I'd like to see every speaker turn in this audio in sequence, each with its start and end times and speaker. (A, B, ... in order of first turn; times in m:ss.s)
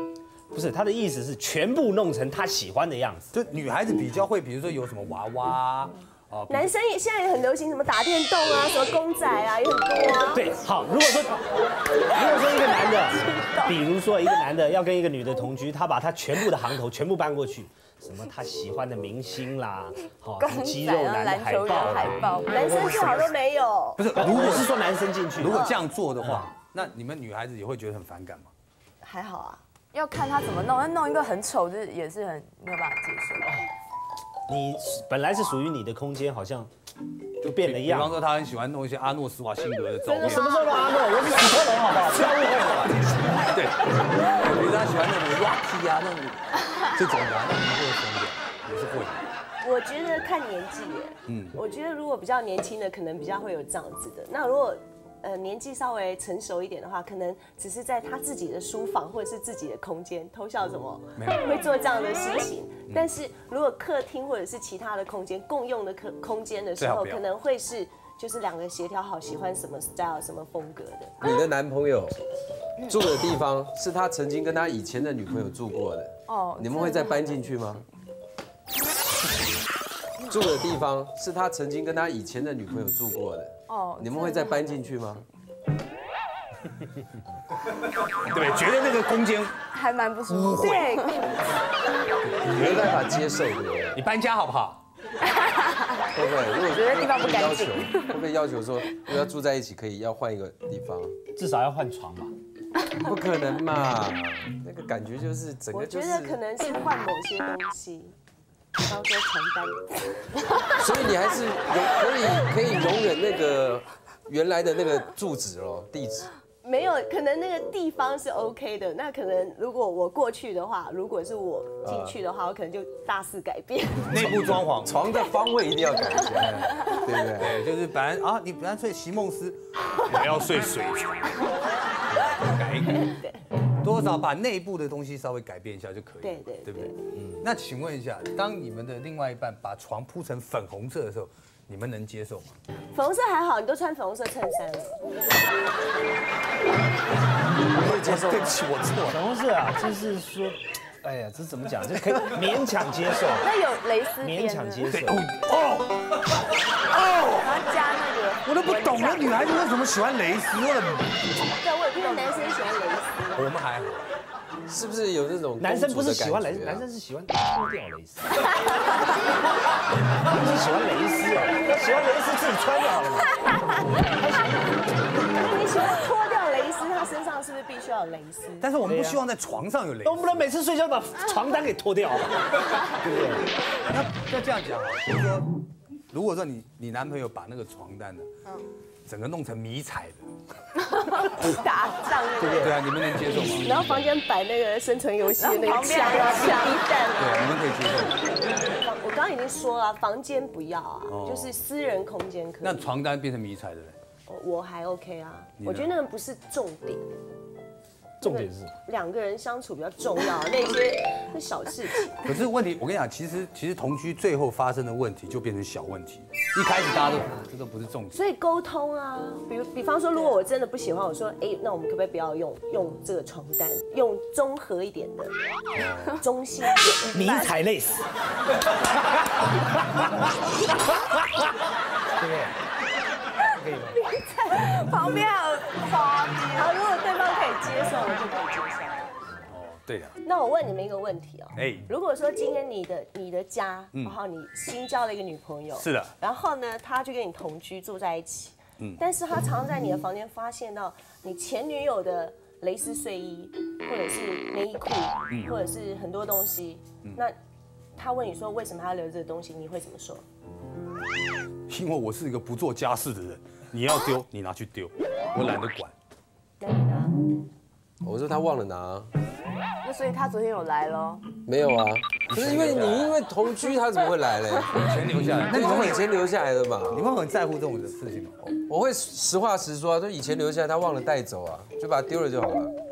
0:00.5-0:03.3 A
0:03.3-0:06.7 B
0:06.5-0:10.5 C
0:10.3-0:11.4 A
0:12.0-0:23.3 A
0:13.2-0:13.7 D
0:20.4-0:22.6 D
0:22.5-0:24.0 C
0:24.0-0:24.7 B
0:24.1-0:25.6 A
0:25.4-0:28.5 B
0:25.5-0:25.8 C
0:26.2-0:26.5 A
0:29.0-0:29.6 C
0:29.9-0:33.6 D
0:34.5-0:36.7 A
0:37.4-0:38.2 A
0:37.4-0:40.5 B
0:40.0-0:41.3 C
0:40.1-0:42.9 A
0:41.4-0:49.2 B
0:49.6-1:11.1 C
0:51.3-0:51.6 B
1:01.2-1:01.5 B
1:06.8-1:07.2 B
1:11.2-1:12.2 E
1:12.8-1:17.8 E
1:16.3-1:17.4 D
1:20.2-1:25.2 E
1:23.7-1:24.8 D
1:28.1-1:29.6 B
1:29.7-1:31.2 D
1:30.3-1:31.0 B
1:30.6-1:31.3 C
1:32.2-1:33.0 B
1:32.5-1:34.0 E
1:33.9-1:34.8 B
1:35.2-1:38.1 D
1:36.1-1:41.1 E
1:41.4-1:42.3 A
1:42.9-1:46.4 E
1:45.7-1:48.1 C
1:48.8-1:50.2 C
1:50.7-1:56.3 E
1:56.6-2:04.4 C
2:01.8-2:02.2 E
2:04.1-2:05.0 B
2:04.8-2:07.6 E
2:06.4-2:11.4 B
2:12.1-2:13.1 B
2:12.8-2:13.4 C
2:13.8-2:22.6 B
2:16.2-2:16.9 C
2:22.9-2:25.0 C
2:27.7-2:28.6 E
2:27.8-2:29.2 B
2:29.1-2:33.5 A
2:33.4-2:34.9 D
2:34.2-2:35.3 A
2:34.9-2:36.2 B
2:36.9-2:37.5 B
2:37.2-2:39.5 D
2:38.4-2:41.5 B
2:41.5-2:43.5 C
2:42.2-2:42.5 D
2:43.3-2:44.1 B
2:44.7-2:46.8 E
2:45.6-2:48.5 A
2:50.2-2:55.9 A
2:55.3-2:58.7 C
2:58.6-3:00.5 B
2:58.8-2:59.2 A
3:00.0-3:03.5 A
3:03.7-3:05.5 B
3:06.1-3:08.3 B
3:09.0-3:10.2 B
3:10.7-3:12.6 D
3:11.5-3:12.8 C
3:12.5-3:14.1 B
3:13.4-3:17.6 C
3:15.2-3:17.1 D
3:17.2-3:18.2 B
3:18.4-3:22.9 C
3:21.0-3:21.6 B
3:22.6-3:24.0 B
3:24.3-3:27.0 C
3:25.6-3:25.9 B
3:28.2-3:28.7 A
3:28.2-3:32.2 C
3:32.2-3:38.2 B
3:38.1-3:45.3 C
3:45.7-3:46.2 B
3:46.2-3:47.3 C
3:46.8-3:47.6 D
3:47.1-3:48.1 A
3:49.4-3:50.3 A
3:52.2-3:52.6 A
3:53.6-3:54.0 A
3:54.1-3:56.8 D
3:56.5-3:59.2 C
3:59.5-4:00.2 B
4:00.2-4:17.4 C
4:01.5-4:01.9 B
4:05.8-4:06.1 B
4:15.3-4:15.5 B
4:18.0-4:20.2 C
4:21.7-4:25.9 B
4:26.6-4:27.2 C
4:28.0-4:29.1 E
4:29.8-4:31.2 D
4:31.4-4:37.1 E
4:32.3-4:33.2 B
4:34.7-4:36.1 B
4:36.9-4:38.6 B
4:38.6-4:42.7 E